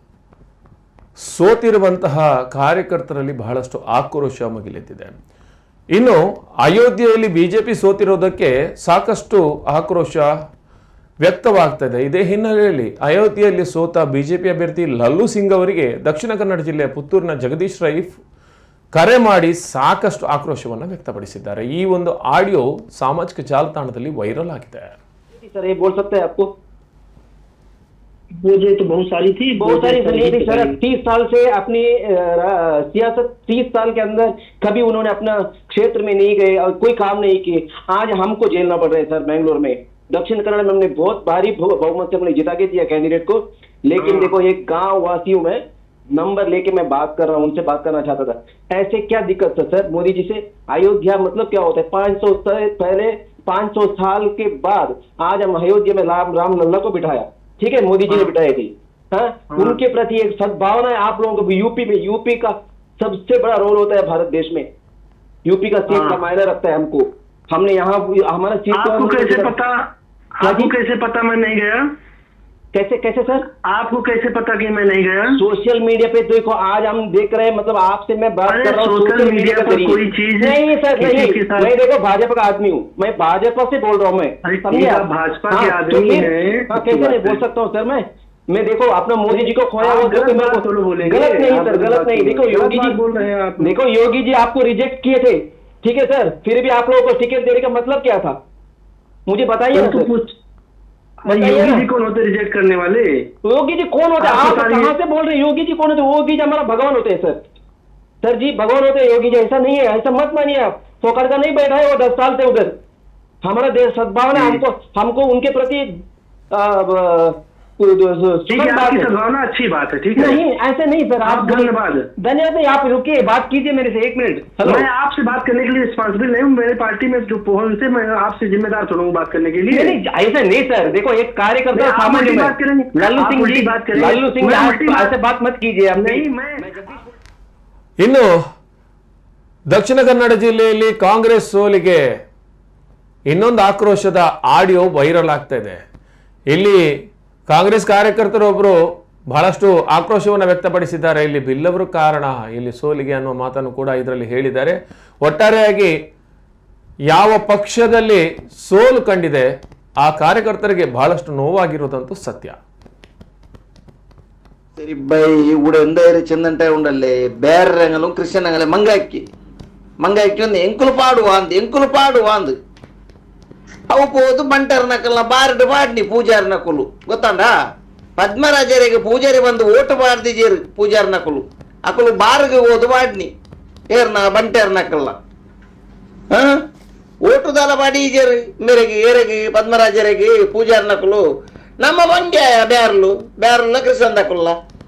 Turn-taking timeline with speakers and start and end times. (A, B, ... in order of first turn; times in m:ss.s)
0:01.2-0:05.2 A
0:05.9-0:10.3 A
0:11.2-0:18.2 A
0:18.9-0:24.9 A
0:25.3-0:26.5 B
0:28.4-0:30.7 C
0:29.6-0:45.6 B
0:44.0-0:44.3 C
0:46.1-1:04.7 B
1:05.4-1:09.5 B
1:05.9-1:06.2 C
1:08.7-1:09.8 C
1:10.4-1:11.8 C
1:10.4-1:10.7 B
1:12.7-1:13.4 B
1:13.6-1:15.4 C
1:15.4-1:38.4 B
1:18.5-1:21.7 C
1:24.4-1:27.4 C
1:29.3-1:33.7 C
1:39.3-1:40.1 B
1:39.7-1:40.3 C
1:41.2-1:43.2 C
1:41.3-1:41.8 B
1:43.4-1:47.4 B
1:44.2-1:44.9 C
1:48.2-1:52.7 B
1:53.4-1:55.9 B
1:54.3-1:54.6 C
1:56.5-1:59.1 B
1:58.5-2:00.4 C
2:00.2-2:04.8 B
2:01.2-2:02.1 C
2:04.6-2:09.9 C
2:09.7-2:17.1 B
2:11.7-2:15.1 C
2:16.0-2:16.6 C
2:18.0-2:18.3 A
2:19.7-2:22.0 A
2:23.3-2:25.8 A
2:26.5-2:26.8 A
2:27.5-2:28.8 A
2:29.3-2:35.9 A
2:37.1-2:39.5 A
2:40.0-2:42.6 A
2:44.8-2:49.2 D
2:50.0-2:52.6 D
2:53.9-2:57.5 D
2:58.2-3:03.3 D
3:03.9-3:05.2 D
3:06.3-3:06.6 D
3:07.2-3:11.2 D
3:11.8-3:14.6 D